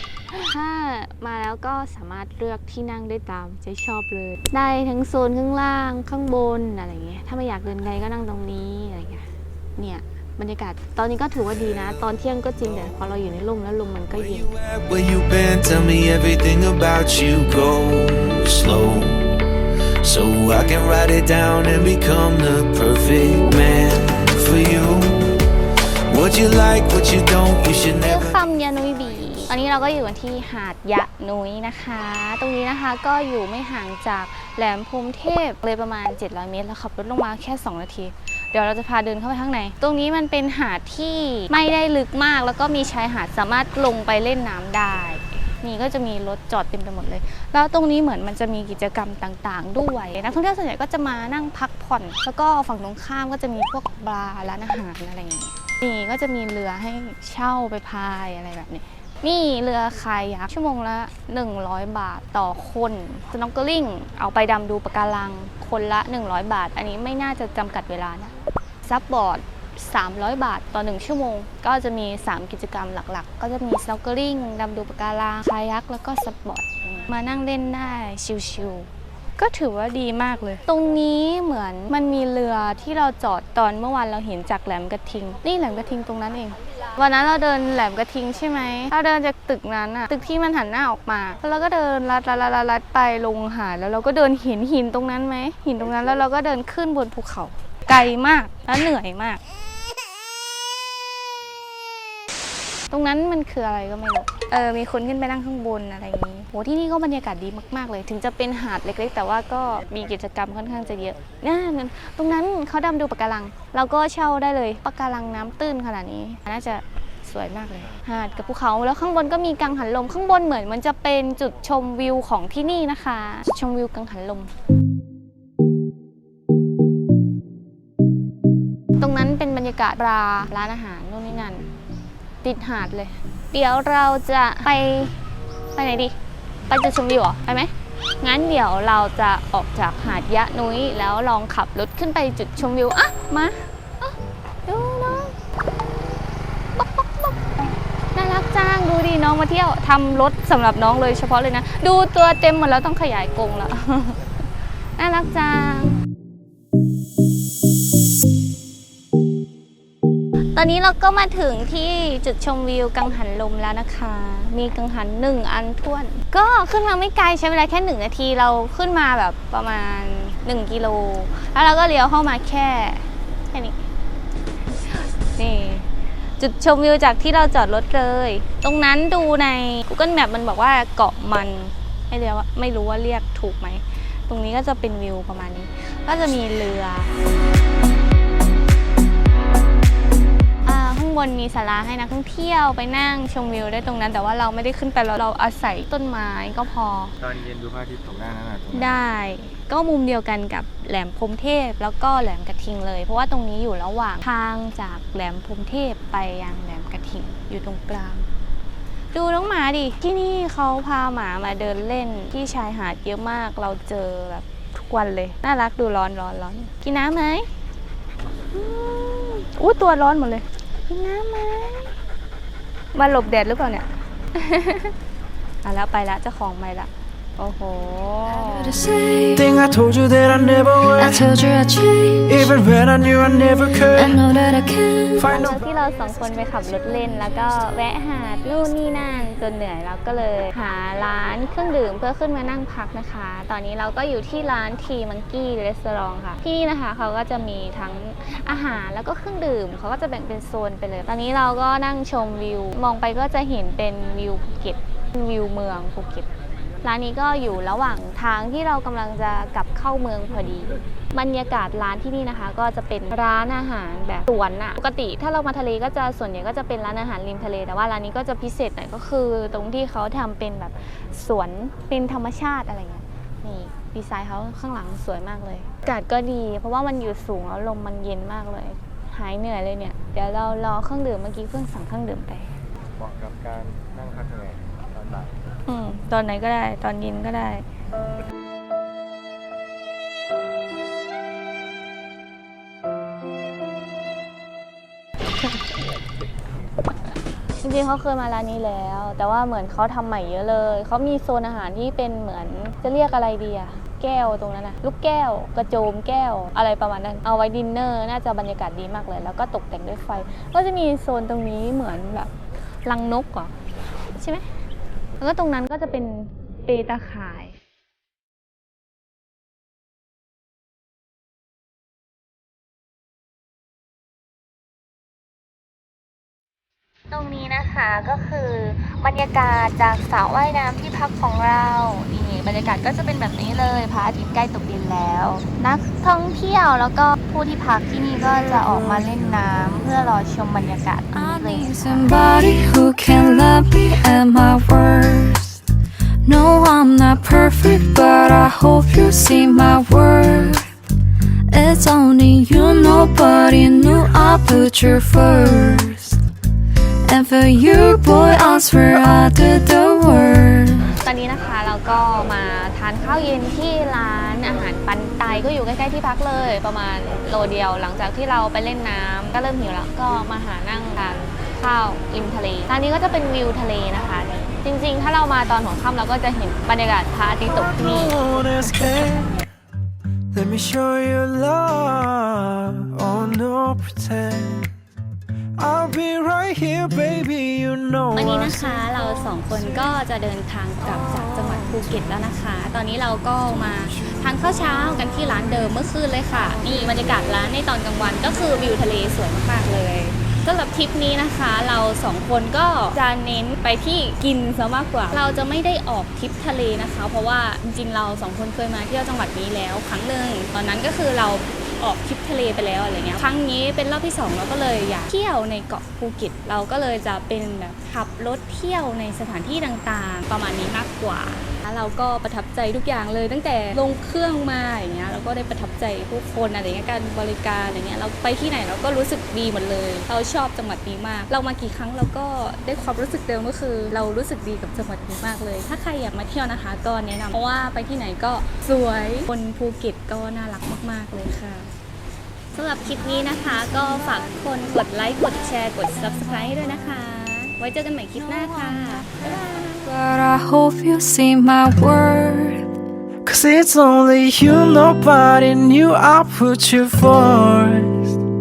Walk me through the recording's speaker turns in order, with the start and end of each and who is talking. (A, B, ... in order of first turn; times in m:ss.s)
0:00.3-0:14.6 A
0:14.5-0:19.3 B
0:20.0-0:25.2 B
0:26.1-0:28.4 B
0:28.0-1:39.4 A
1:42.9-2:04.5 A
2:09.0-2:11.7 A
2:12.4-2:15.2 A
2:15.8-2:16.2 A
2:16.7-2:25.4 A
2:26.8-2:27.6 A
2:28.1-2:34.2 A
2:35.0-2:36.0 A
2:40.6-2:53.8 A
2:54.8-2:55.9 A
2:56.4-3:07.1 A
3:10.7-3:17.1 A
3:17.2-3:19.0 C
3:18.7-3:28.3 A
3:29.1-3:37.5 A
3:38.5-3:41.9 A
3:42.9-3:45.0 A
3:45.6-3:48.8 A
3:48.3-3:49.6 D
3:49.3-3:51.3 E
3:50.8-3:52.6 D
3:52.3-3:54.3 E
3:53.8-3:55.3 D
3:55.2-3:55.7 E
3:55.3-4:16.3 A
4:16.8-4:42.5 A
4:43.0-4:45.4 C
4:45.7-4:47.6 A
4:57.6-5:12.3 A
5:12.8-5:13.6 A
5:14.1-5:14.5 A
5:15.2-5:17.6 A
5:27.1-5:42.1 A
5:41.1-5:45.6 D
5:46.2-5:50.7 D
5:51.5-5:56.2 D
5:57.0-6:00.9 D
6:01.0-6:18.7 A
6:17.4-6:19.4 E
6:20.3-6:24.7 E
6:25.6-6:29.7 E
6:28.2-7:21.7 A
7:22.5-7:29.8 A
7:29.8-7:32.6 D
7:33.2-7:38.2 E